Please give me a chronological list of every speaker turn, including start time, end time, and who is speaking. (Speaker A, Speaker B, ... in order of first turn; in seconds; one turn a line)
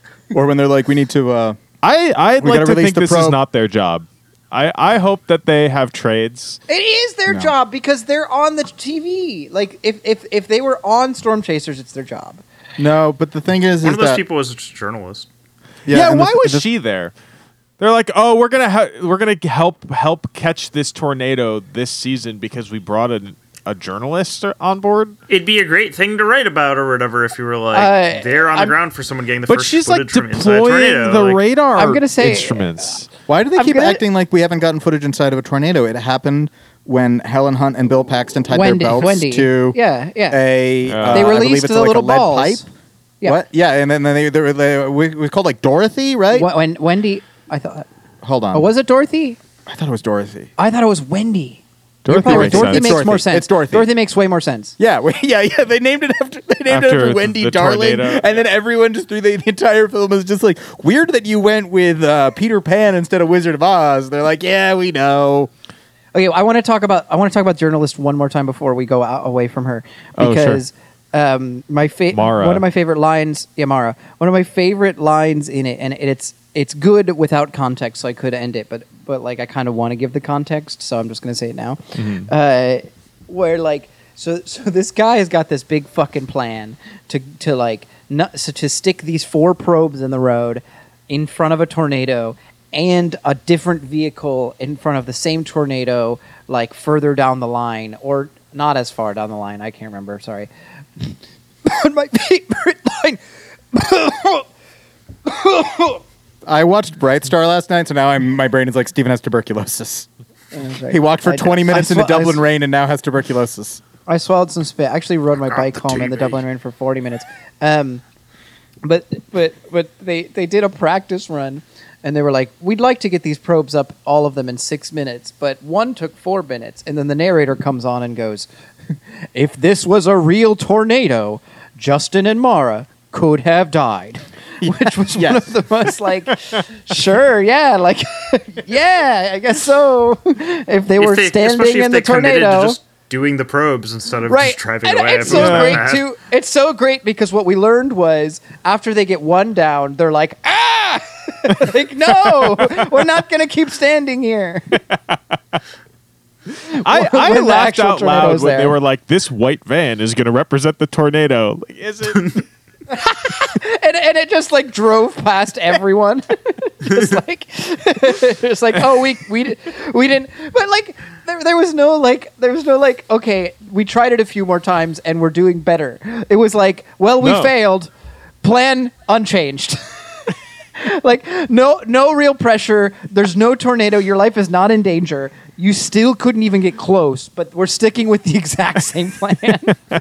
Speaker A: 0.3-1.6
Speaker B: 1.8-6.6
Speaker A: 2.4-3.4
Speaker C: 6.7-12.4
Speaker A: 7.3-7.5
Speaker A: 12.8-14.2
Speaker D: 13.8-15.3
Speaker A: 15.8-16.6
Speaker B: 15.9-17.1
Speaker B: 17.8-25.1
Speaker D: 25.3-31.4
Speaker C: 27.7-28.7
Speaker B: 29.5-33.1
Speaker C: 31.7-32.7
Speaker A: 33.3-39.8
Speaker C: 33.5-34.0
Speaker C: 38.5-40.4
Speaker A: 40.3-42.6
Speaker B: 40.8-41.4
Speaker C: 41.0-42.7
Speaker A: 43.2-46.5
Speaker C: 46.3-47.9
Speaker A: 48.2-48.7
Speaker C: 48.5-49.4
Speaker A: 49.6-50.5
Speaker C: 50.6-54.8
Speaker B: 52.0-53.0
Speaker A: 52.0-53.9
Speaker A: 54.8-65.5
Speaker B: 56.7-58.4
Speaker C: 66.1-103.2
Speaker B: 70.2-70.6
Speaker B: 72.1-72.6
Speaker B: 82.0-82.3
Speaker C: 103.7-104.5
Speaker C: 105.2-106.0
Speaker A: 106.5-110.1
Speaker C: 110.5-112.4
Speaker A: 110.9-113.8
Speaker C: 114.0-118.0
Speaker D: 115.5-116.4
Speaker C: 118.8-128.5
Speaker C: 129.3-142.8
Speaker A: 134.6-135.6
Speaker D: 141.0-146.1
Speaker C: 144.3-154.8
Speaker B: 145.3-145.8
Speaker B: 154.9-155.2
Speaker B: 156.7-162.4
Speaker C: 156.7-158.8
Speaker C: 162.9-177.9
Speaker B: 177.2-177.5
Speaker C: 178.4-189.8